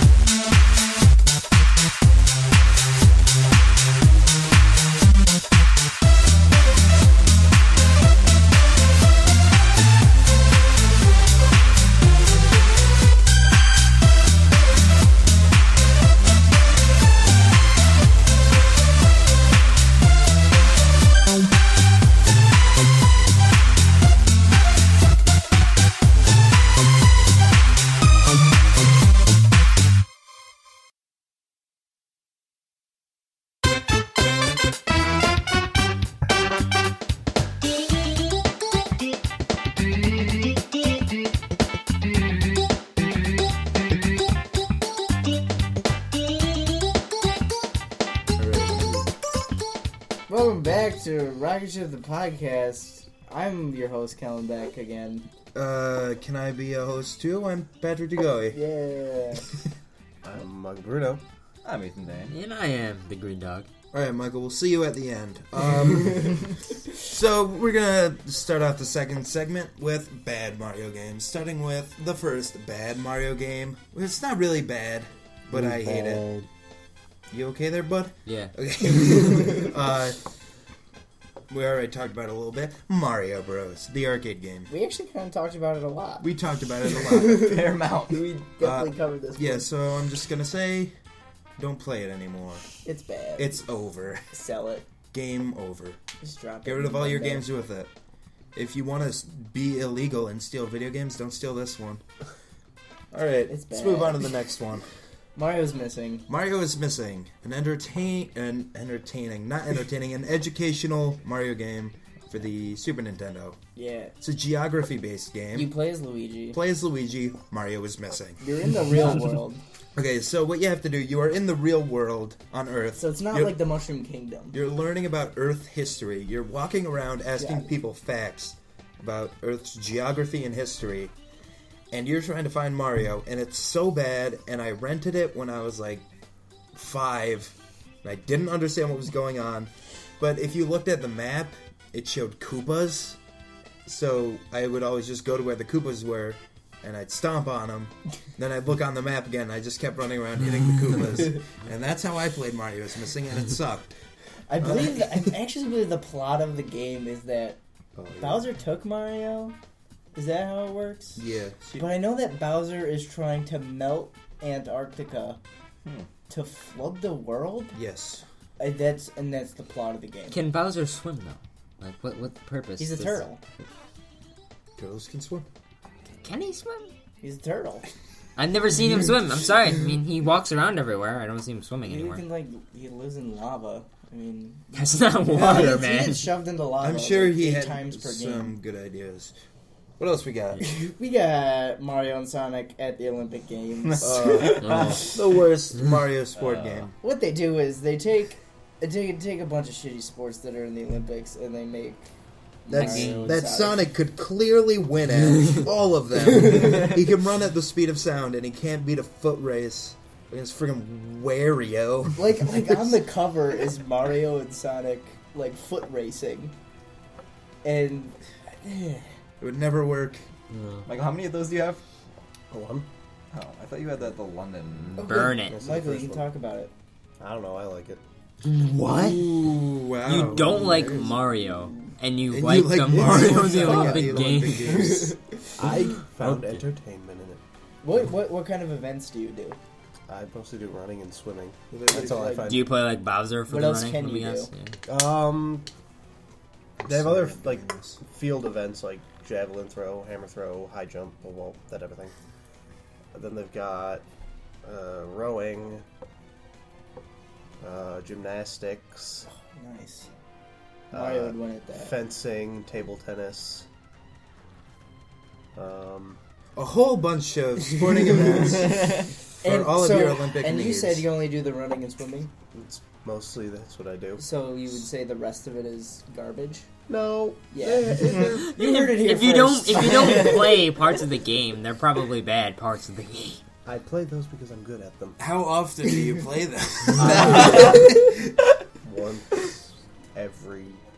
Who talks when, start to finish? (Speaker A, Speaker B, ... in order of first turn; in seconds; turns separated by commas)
Speaker A: 50.3-55.2, Speaker B: 55.5-58.6, Speaker A: 58.5-59.5, Speaker C: 60.2-61.2, Speaker D: 61.6-62.3, Speaker E: 62.3-63.7, Speaker B: 63.9-76.3, Speaker C: 75.5-76.5, Speaker B: 77.3-80.2, Speaker E: 78.2-78.5, Speaker B: 81.5-84.7, Speaker A: 84.7-86.3, Speaker B: 86.2-87.7, Speaker A: 86.8-89.7, Speaker D: 87.7-88.2, Speaker B: 88.6-90.9, Speaker B: 91.6-92.7, Speaker A: 92.8-93.6, Speaker B: 93.4-94.3, Speaker A: 94.3-94.8, Speaker B: 95.1-96.0, Speaker A: 96.2-97.5, Speaker B: 96.6-97.9, Speaker B: 98.5-102.0, Speaker B: 103.1-104.8, Speaker A: 103.5-104.3, Speaker A: 105.3-106.3, Speaker B: 106.3-113.6, Speaker A: 113.8-114.1, Speaker B: 114.2-115.7, Speaker A: 115.5-116.6, Speaker B: 116.5-118.4, Speaker A: 118.4-119.6, Speaker B: 119.9-123.6, Speaker A: 123.0-124.6, Speaker B: 124.5-131.1, Speaker A: 127.4-127.7, Speaker B: 131.9-136.0, Speaker B: 136.7-143.2, Speaker B: 143.8-153.9, Speaker A: 154.5-157.6, Speaker B: 154.6-155.1, Speaker B: 157.9-158.4, Speaker A: 158.2-159.6, Speaker A: 160.1-161.2, Speaker B: 161.2-161.8, Speaker A: 161.7-165.4, Speaker A: 166.3-167.8, Speaker B: 167.7-168.2, Speaker A: 168.6-170.4, Speaker E: 170.3-173.2, Speaker A: 172.8-173.4, Speaker B: 174.8-175.5, Speaker E: 176.2-176.9, Speaker A: 177.2-177.8, Speaker E: 178.3-182.2, Speaker A: 181.8-188.6, Speaker E: 184.7-186.3, Speaker B: 185.3-185.8, Speaker B: 186.8-189.3, Speaker B: 190.0-190.6, Speaker A: 190.6-195.1, Speaker B: 194.0-196.9, Speaker D: 196.3-196.9, Speaker A: 197.0-202.1, Speaker A: 202.6-203.9, Speaker B: 202.7-212.3, Speaker E: 202.7-203.3, Speaker A: 206.4-206.9, Speaker A: 212.2-216.5, Speaker A: 217.6-219.1, Speaker B: 219.4-220.2, Speaker E: 220.5-220.8, Speaker D: 220.8-221.8, Speaker C: 222.5-222.9, Speaker D: 223.3-225.0, Speaker A: 225.0-226.7, Speaker E: 225.0-225.6, Speaker C: 225.2-226.3, Speaker C: 227.2-228.0, Speaker E: 228.4-229.2, Speaker B: 228.6-231.1, Speaker E: 230.0-235.0, Speaker C: 230.4-231.1, Speaker B: 232.3-235.2, Speaker C: 233.1-233.8, Speaker A: 233.6-234.1, Speaker A: 234.7-235.2, Speaker C: 235.6-237.4, Speaker A: 237.8-239.6, Speaker C: 240.1-242.8, Speaker B: 241.7-242.4, Speaker A: 241.9-242.5, Speaker E: 242.4-244.7, Speaker A: 243.5-244.5, Speaker C: 244.9-245.7, Speaker B: 246.8-248.0, Speaker C: 246.8-252.1, Speaker C: 253.1-254.0, Speaker C: 254.6-255.8, Speaker C: 257.6-259.3, Speaker A: 259.3-260.1, Speaker C: 260.9-263.6, Speaker A: 260.9-261.9, Speaker C: 265.5-266.2, Speaker B: 266.6-271.1, Speaker A: 269.4-272.3, Speaker C: 272.5-274.2, Speaker A: 274.2-276.7, Speaker C: 276.9-278.5, Speaker A: 277.5-280.6, Speaker E: 278.2-283.4, Speaker C: 283.6-285.2, Speaker B: 285.2-288.3, Speaker C: 287.3-287.7, Speaker A: 287.5-287.8, Speaker C: 288.8-290.8